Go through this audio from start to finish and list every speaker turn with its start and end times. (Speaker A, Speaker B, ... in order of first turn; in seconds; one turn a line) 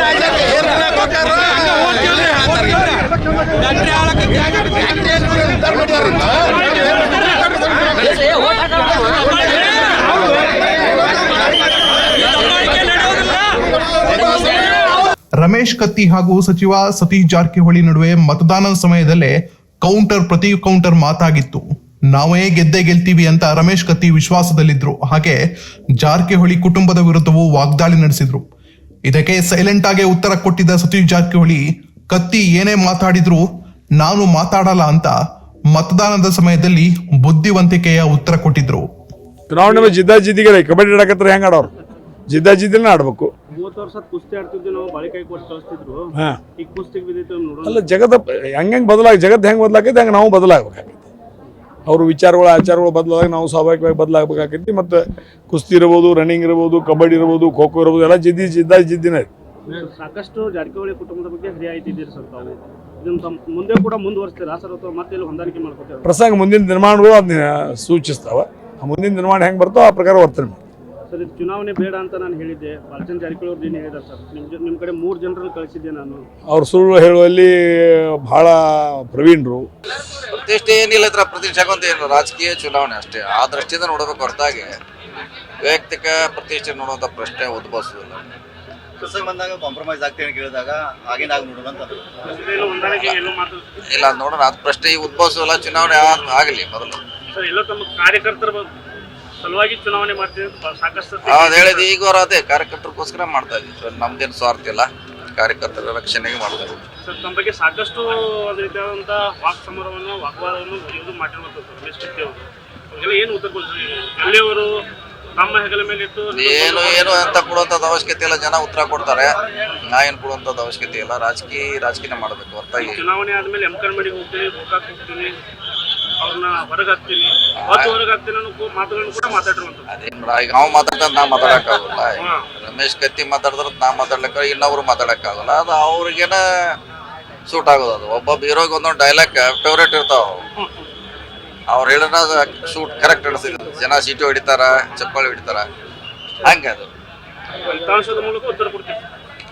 Speaker A: 15.4-25.4
Speaker A: 26.0-28.4
Speaker A: 29.1-33.4
Speaker A: 34.0-35.1
Speaker A: 35.7-38.9
Speaker B: 39.5-41.7
Speaker B: 42.3-43.3
Speaker C: 43.5-47.9
Speaker B: 46.1-46.4
Speaker B: 47.6-51.0
Speaker B: 51.9-59.3
Speaker C: 59.7-66.1
Speaker B: 66.0-70.6
Speaker C: 71.1-76.2
Speaker B: 76.5-79.7
Speaker D: 80.3-84.8
Speaker D: 85.6-88.3
Speaker E: 89.0-92.1
Speaker C: 92.3-93.6
Speaker D: 92.9-93.3
Speaker D: 93.9-97.0
Speaker C: 97.3-98.7
Speaker C: 99.4-101.9
Speaker D: 101.2-106.8
Speaker C: 107.0-114.8
Speaker C: 115.3-117.5
Speaker D: 116.3-123.0
Speaker C: 122.8-125.4
Speaker C: 126.2-129.9
Speaker D: 127.7-128.0
Speaker D: 129.9-136.8
Speaker C: 132.2-132.5
Speaker D: 137.5-140.4
Speaker D: 141.7-145.7
Speaker D: 146.4-146.9
Speaker C: 147.6-149.0